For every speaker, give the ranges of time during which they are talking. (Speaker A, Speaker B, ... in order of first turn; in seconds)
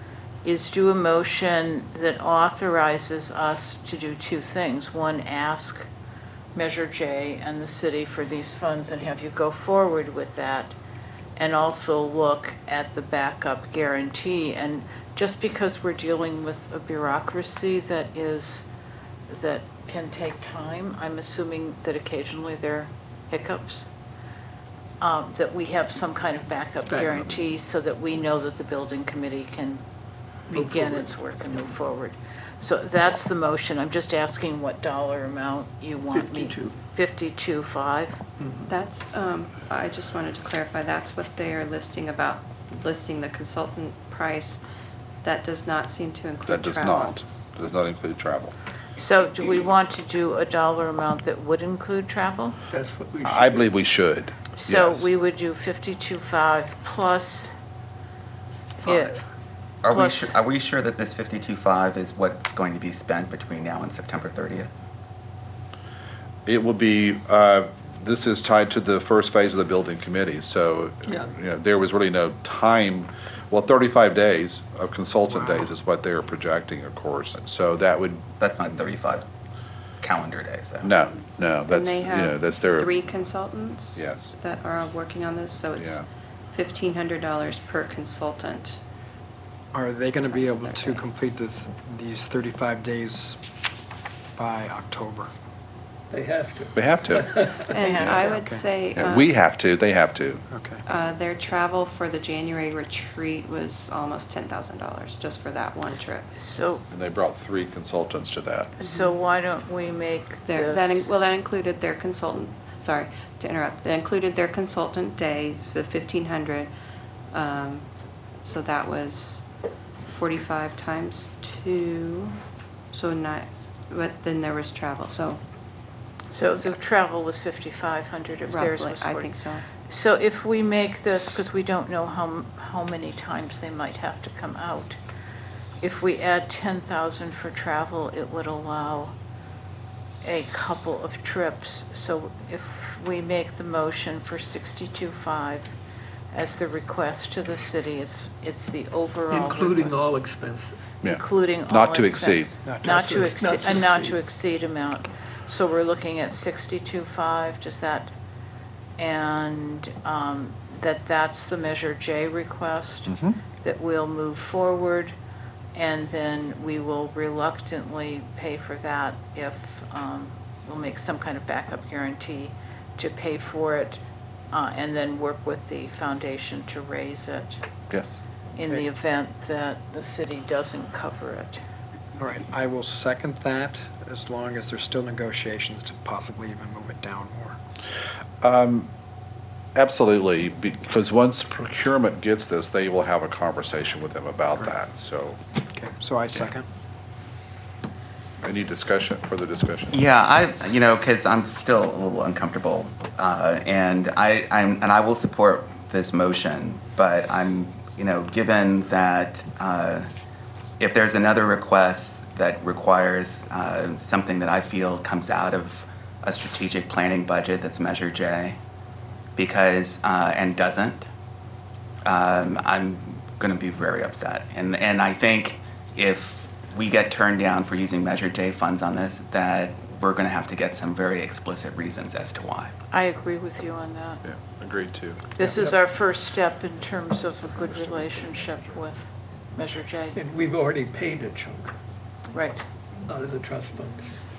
Speaker A: 0.4-5.9, 6.5-10.8, 11.4-18.7, 19.3-23.9, 25.0-29.8, 30.6-38.2, 49.0-52.6, 54.5-57.5, 58.8-59.2, 59.9-60.3, 97.8-98.2, 106.3-106.8, 108.8-111.1, 126.3-135.0, 135.8-139.2, 140.2-145.7, 146.3-150.0, 151.1-158.1, 159.0-165.2, 165.7-174.0, 174.5-177.6, 178.6-181.6, 232.9-234.2, 235.4-240.3, 242.3-242.6
Speaker B: 26.9-27.4, 30.5-31.7, 36.1-36.8, 38.4-38.7, 52.7-53.7, 71.1-71.3, 96.1-97.8, 149.3-151.0, 152.8-154.2, 240.1-241.8, 243.1-244.1
Speaker C: 38.7-44.6, 45.2-47.2, 81.7-88.8, 90.2-91.1, 97.7-99.3, 100.9-106.3, 110.5-116.7, 117.3-117.8, 118.4-119.5, 120.1-122.4, 122.9-125.4, 128.5-129.7
Speaker D: 46.5-48.5, 53.2-55.1, 66.5-78.2, 80.8-82.9, 84.0-84.3, 85.8-86.0, 96.8-97.3, 99.0-100.4, 106.9-108.7, 151.0-152.6, 163.1-163.4, 188.4-188.9, 189.8-195.4, 198.4-200.0, 234.2-235.5, 238.0-238.4
Speaker E: 59.8-64.7, 78.4-79.2, 80.0-80.9, 199.9-210.1, 210.8-218.6, 219.4-221.1, 222.1-232.7
Speaker F: 75.3-75.7, 89.7-93.4, 94.4-95.3, 98.0-98.6, 100.5-100.8, 152.7-153.2, 182.2-187.6, 195.7-196.7